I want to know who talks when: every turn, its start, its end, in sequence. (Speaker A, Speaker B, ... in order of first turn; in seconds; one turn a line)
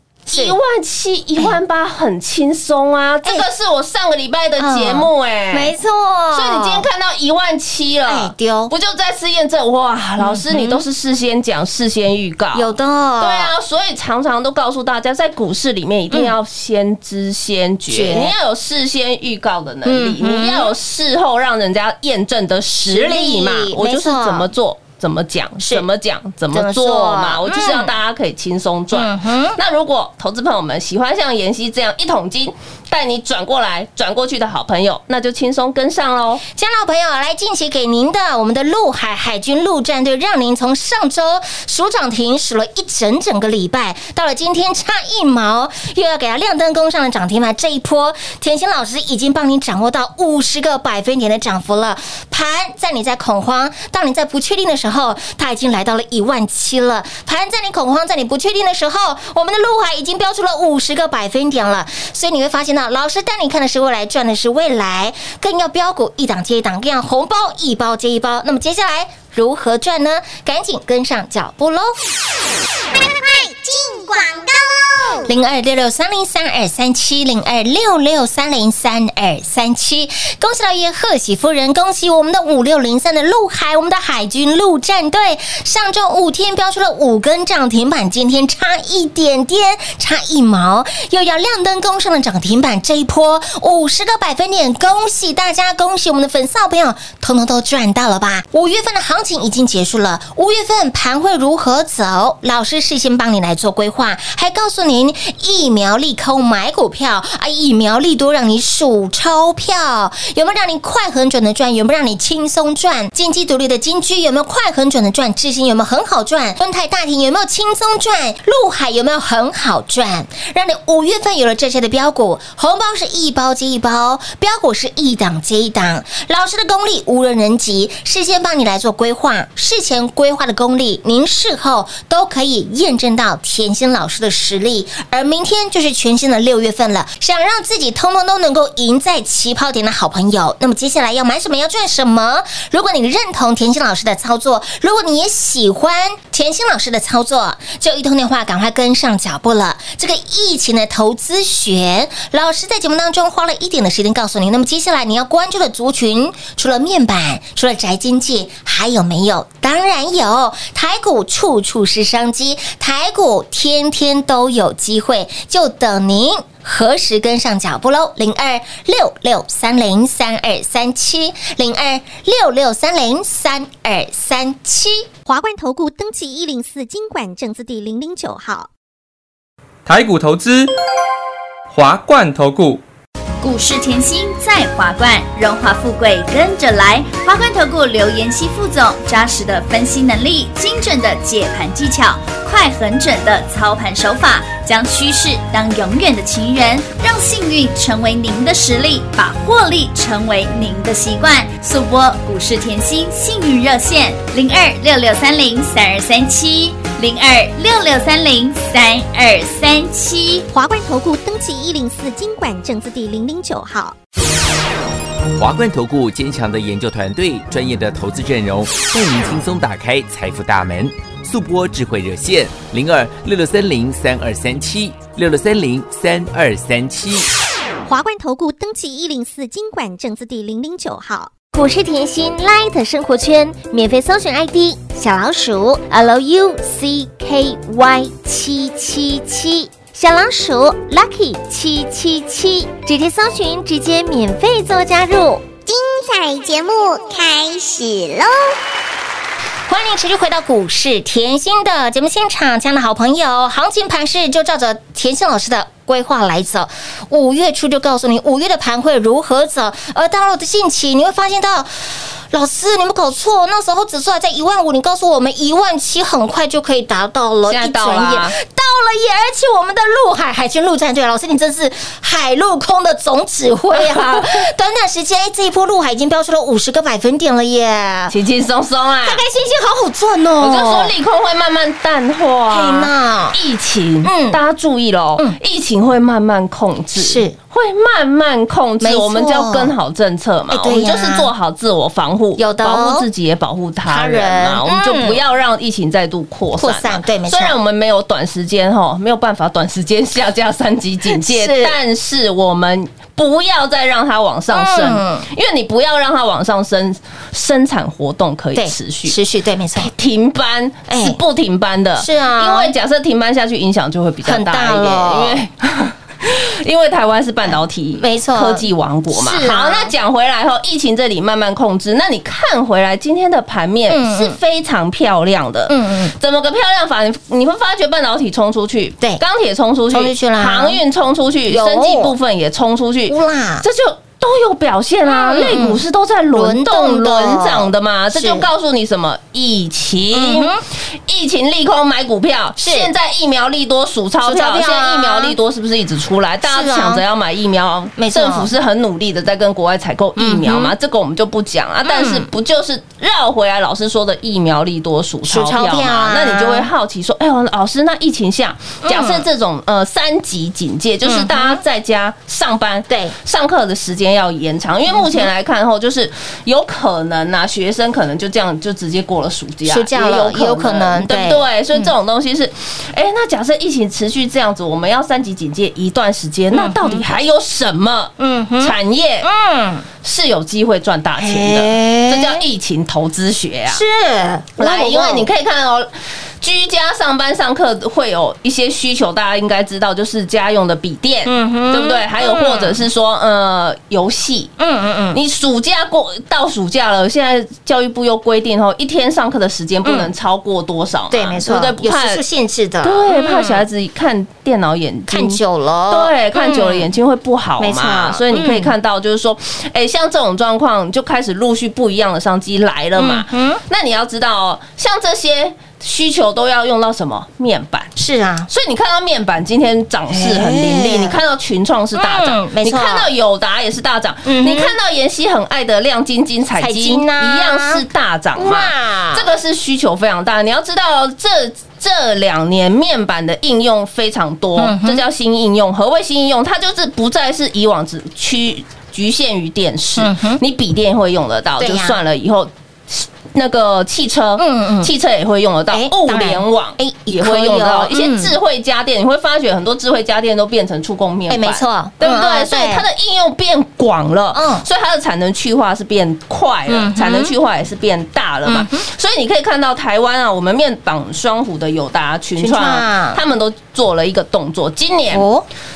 Speaker A: 0.3-5.7
Speaker B: 4.6-6.9
Speaker A: 6.3-36.4
Speaker B: 8.1-8.7
Speaker B: 10.2-10.8
Speaker B: 12.5-13.5
Speaker B: 16.1-16.4
Speaker B: 17.9-18.3
Speaker B: 19.9-20.7
Speaker B: 22.9-24.5
Speaker B: 25.6-25.9
Speaker B: 26.5-27.9
Speaker B: 28.9-29.6
Speaker B: 36.5-72.0
Speaker C: 73.0-75.3
Speaker B: 75.3-175.1
Speaker D: 175.3-178.7
Speaker E: 179.9-180.7
Speaker E: 181.7-182.8
Speaker F: 183.4-210.5
Speaker D: 210.5-214.0
Speaker G: 215.4-227.3
Speaker D: 227.9-231.3
Speaker B: 231.5-245.5
Speaker C: 245.7-248.5
Speaker B: 249.7-278.1
Speaker A: 267.5-268.4
Speaker A: 273.7-274.5
Speaker A: 278.1-279.2
Speaker B: 279.0-280.9
Speaker A: 280.4-309.2
Speaker B: 282.5-283.4
Speaker B: 284.0-284.4
Speaker B: 287.0-287.4
Speaker B: 288.8-289.7
Speaker B: 290.5-291.3
Speaker B: 292.4-293.1
Speaker B: 293.9-295.2
Speaker B: 296.6-297.6
Speaker B: 301.1-301.8
Speaker B: 304.5-305.3
Speaker B: 308.6-309.9
Speaker A: 309.8-379.3
Speaker B: 310.9-311.2
Speaker B: 312.0-312.7
Speaker B: 314.2-315.4
Speaker B: 317.4-319.9
Speaker B: 323.9-324.4
Speaker B: 325.7-326.1
Speaker B: 329.9-330.8
Speaker B: 331.5-332.1
Speaker B: 333.1-333.7
Speaker B: 335.1-335.8
Speaker B: 336.3-338.5
Speaker B: 340.1-340.6
Speaker B: 342.6-342.9
Speaker B: 344.2-345.4
Speaker B: 346.5-347.0
Speaker B: 348.0-348.5
Speaker B: 350.2-350.7
Speaker B: 351.8-352.3
Speaker B: 355.2-356.7
Speaker B: 358.8-359.2
Speaker B: 361.1-361.6
Speaker B: 362.9-363.1
Speaker B: 364.9-365.3
Speaker B: 369.7-371.9
Speaker B: 376.5-377.0
Speaker B: 378.2-379.9
Speaker A: 380.0-383.8
Speaker B: 381.2-382.4
Speaker B: 383.7-385.3
Speaker A: 384.6-385.9
Speaker A: 386.4-394.5
Speaker B: 391.3-392.8
Speaker B: 394.6-395.2
Speaker A: 395.1-402.2
Speaker B: 399.8-400.1
Speaker B: 401.1-403.6
Speaker A: 402.8-417.9
Speaker B: 405.1-406.9
Speaker B: 407.6-408.7
Speaker B: 413.0-413.6
Speaker B: 418.0-418.5
Speaker A: 418.5-465.3
Speaker B: 420.1-421.2
Speaker B: 421.9-423.1
Speaker B: 424.2-424.7
Speaker B: 426.6-427.8
Speaker B: 428.4-429.3
Speaker B: 434.6-435.0
Speaker B: 440.0-440.4
Speaker B: 441.6-442.0
Speaker B: 444.4-444.9
Speaker B: 445.7-448.3
Speaker B: 451.3-452.9
Speaker B: 454.3-454.7
Speaker B: 456.7-457.3
Speaker B: 458.4-458.8
Speaker B: 462.4-463.2
Speaker B: 465.1-465.5